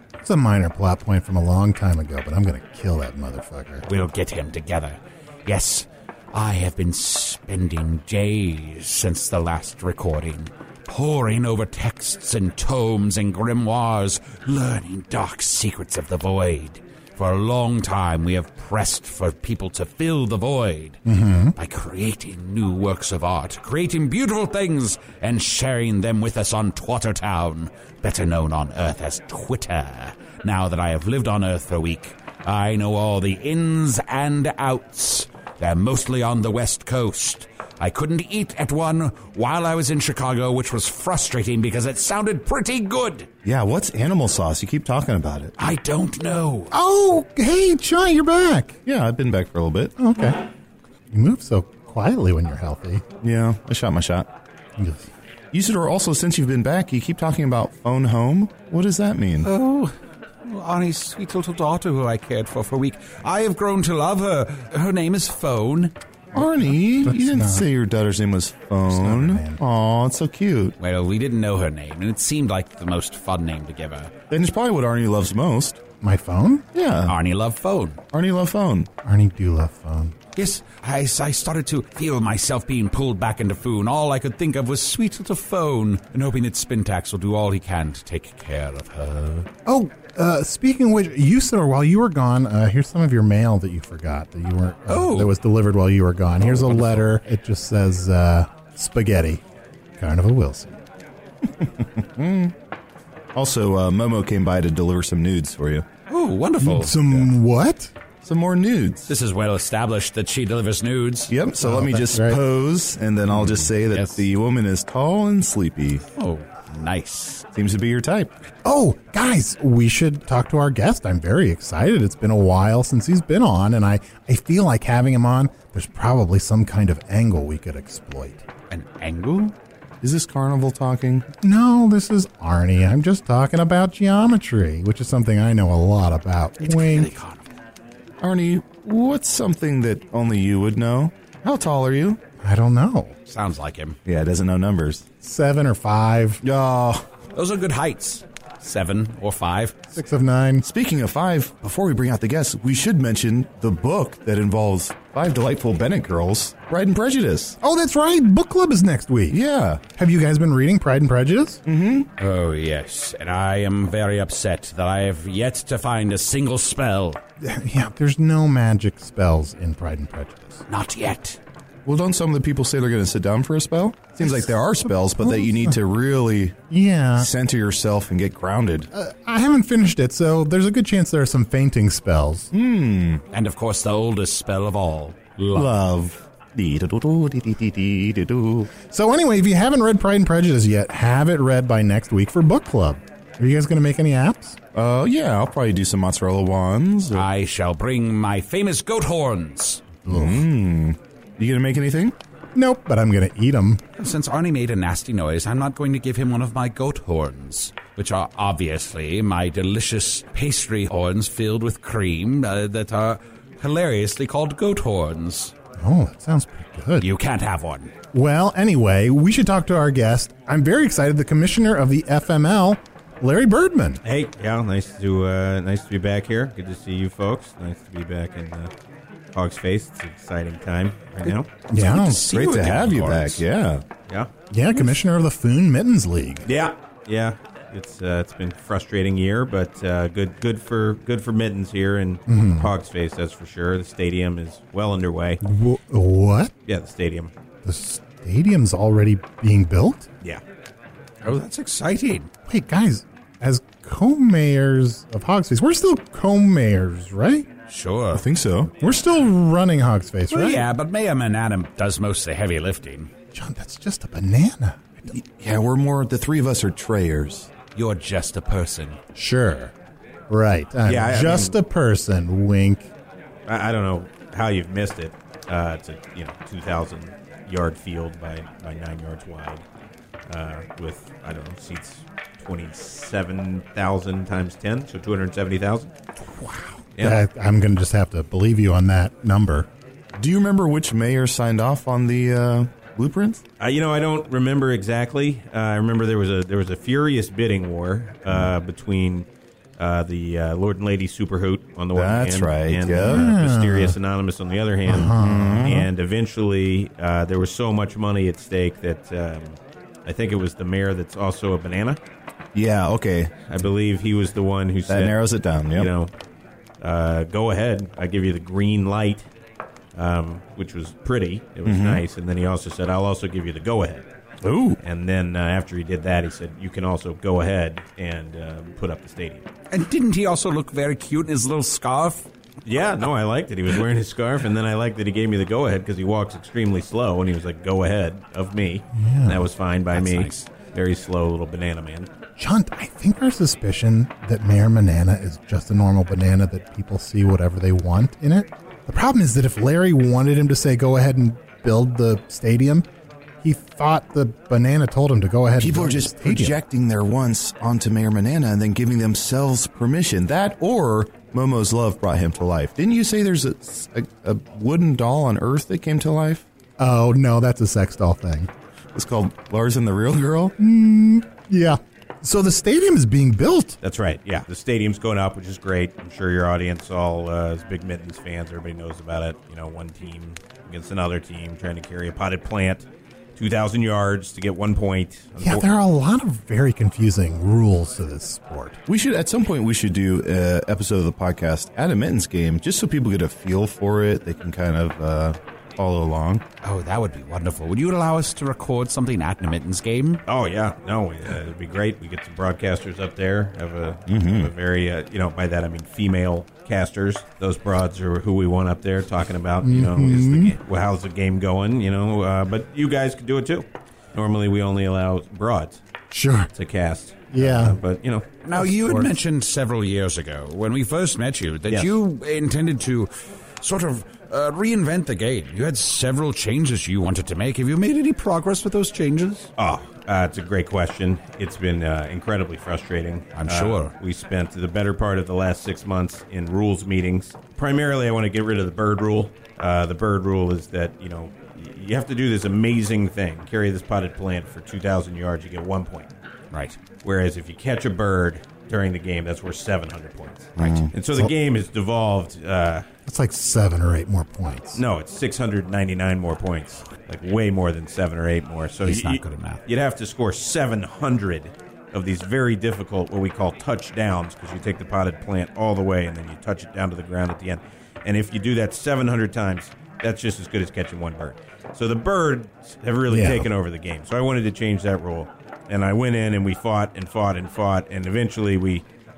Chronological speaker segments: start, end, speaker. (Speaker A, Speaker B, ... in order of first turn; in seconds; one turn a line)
Speaker A: 0.2-3.9
Speaker B: 3.9-21.0
Speaker A: 21.1-21.6
Speaker B: 21.6-43.3
Speaker C: 43.4-45.5
Speaker B: 45.6-46.7
Speaker A: 46.7-48.8
Speaker C: 48.9-49.9
Speaker A: 50.0-50.4
Speaker A: 51.1-53.0
Speaker C: 53.2-54.3
Speaker A: 54.8-55.1
Speaker C: 55.5-59.5
Speaker B: 59.4-59.9
Speaker B: 60.5-65.9
Speaker C: 66.3-70.7
Speaker A: 66.7-67.6
Speaker A: 68.9-69.6
Speaker B: 70.8-74.1
Speaker C: 74.3-75.8
Speaker A: 76.0-76.6
Speaker C: 76.7-77.1
Speaker B: 77.1-78.0
Speaker C: 78.1-78.9
Speaker A: 79.0-80.1
Speaker B: 80.4-89.5
Speaker A: 89.7-99.4
Speaker B: 94.9-95.3
Speaker B: 96.4-97.1
Speaker A: 100.0-100.8
Speaker C: 101.6-102.5
Speaker C: 103.3-105.8
Speaker B: 106.1-107.3
Speaker A: 106.6-107.9
Speaker C: 108.2-109.1
Speaker B: 109.1-111.3
Speaker C: 111.3-116.0
Speaker A: 111.6-112.4
Speaker B: 113.3-114.2
Speaker B: 116.2-117.4
Speaker C: 117.5-118.3
Speaker A: 118.6-128.4
Speaker B: 128.7-129.6
Speaker C: 130.0-131.2
Speaker A: 131.4-137.1
Speaker B: 136.6-137.5
Speaker C: 138.2-142.2
Speaker A: 142.4-143.1
Speaker B: 143.3-144.0
Speaker C: 144.1-145.0
Speaker A: 145.2-146.4
Speaker C: 146.4-147.0
Speaker B: 147.3-149.8
Speaker A: 149.9-150.6
Speaker C: 150.6-157.6
Speaker A: 157.6-159.4
Speaker C: 159.3-159.8
Speaker A: 160.0-161.6
Speaker C: 161.7-162.1
Speaker B: 162.2-167.2
Speaker A: 167.4-170.6
Speaker B: 170.7-171.4
Speaker C: 171.8-176.6
Speaker A: 174.4-175.8
Speaker A: 176.7-177.3
Speaker C: 177.2-178.9
Speaker A: 178.9-182.5
Speaker C: 182.5-183.2
Speaker B: 183.3-185.7
Speaker C: 185.5-188.7
Speaker A: 188.9-194.6
Speaker C: 194.7-197.2
Speaker B: 197.1-200.0
Speaker A: 200.1-200.5
Speaker C: 200.1-202.1
Speaker A: 202.6-203.8
Speaker B: 204.0-215.5
Speaker A: 215.8-217.1
Speaker B: 217.0-217.9
Speaker A: 218.1-224.0
Speaker D: 224.0-228.7
Speaker D: 229.3-231.5
Speaker A: 231.7-232.2
Speaker B: 231.8-233.4
Speaker C: 232.2-233.8
Speaker A: 234.5-236.5
Speaker D: 236.5-245.4
Speaker A: 242.3-242.7
Speaker A: 245.4-246.5
Speaker D: 246.7-247.3
Speaker A: 247.6-250.1
Speaker B: 251.2-252.3
Speaker A: 252.5-257.5
Speaker B: 257.7-258.2
Speaker C: 258.1-258.7
Speaker A: 258.8-260.7
Speaker B: 260.3-263.1
Speaker A: 263.4-265.1
Speaker C: 265.1-267.5
Speaker B: 267.8-269.0
Speaker A: 269.1-269.7
Speaker A: 270.3-272.9
Speaker D: 270.9-271.6
Speaker D: 273.5-279.6
Speaker D: 280.3-285.9
Speaker A: 287.0-289.7
Speaker C: 290.1-293.4
Speaker D: 293.6-299.2
Speaker D: 299.8-312.0
Speaker C: 301.9-303.3
Speaker A: 303.0-303.9
Speaker A: 304.9-305.8
Speaker C: 305.0-305.9
Speaker C: 312.6-313.3
Speaker D: 313.5-316.1
Speaker C: 314.9-315.9
Speaker D: 316.8-319.2
Speaker D: 319.9-324.0
Speaker C: 321.6-322.0
Speaker C: 324.4-324.8
Speaker D: 324.8-329.5
Speaker B: 329.7-332.3
Speaker D: 332.6-342.1
Speaker A: 339.0-339.5
Speaker B: 339.9-340.5
Speaker A: 342.4-352.9
Speaker A: 353.4-356.6
Speaker C: 355.6-366.5
Speaker A: 366.8-368.5
Speaker C: 368.9-370.5
Speaker A: 370.6-373.8
Speaker D: 373.8-382.9
Speaker D: 383.4-385.7
Speaker A: 385.4-388.8
Speaker C: 388.9-396.4
Speaker B: 396.6-400.2
Speaker D: 400.3-415.8
Speaker C: 404.1-404.5
Speaker A: 409.6-410.5
Speaker A: 416.1-416.5
Speaker D: 416.5-418.2
Speaker A: 417.3-417.8
Speaker B: 418.4-423.1
Speaker A: 418.5-419.1
Speaker D: 421.7-421.9
Speaker B: 423.6-429.5
Speaker D: 429.6-446.1
Speaker B: 433.3-433.9
Speaker B: 446.5-446.8
Speaker D: 447.0-452.9
Speaker C: 450.6-450.9
Speaker B: 450.6-450.9
Speaker A: 453.1-454.8
Speaker D: 454.8-478.9
Speaker B: 458.8-459.6
Speaker A: 473.1-473.5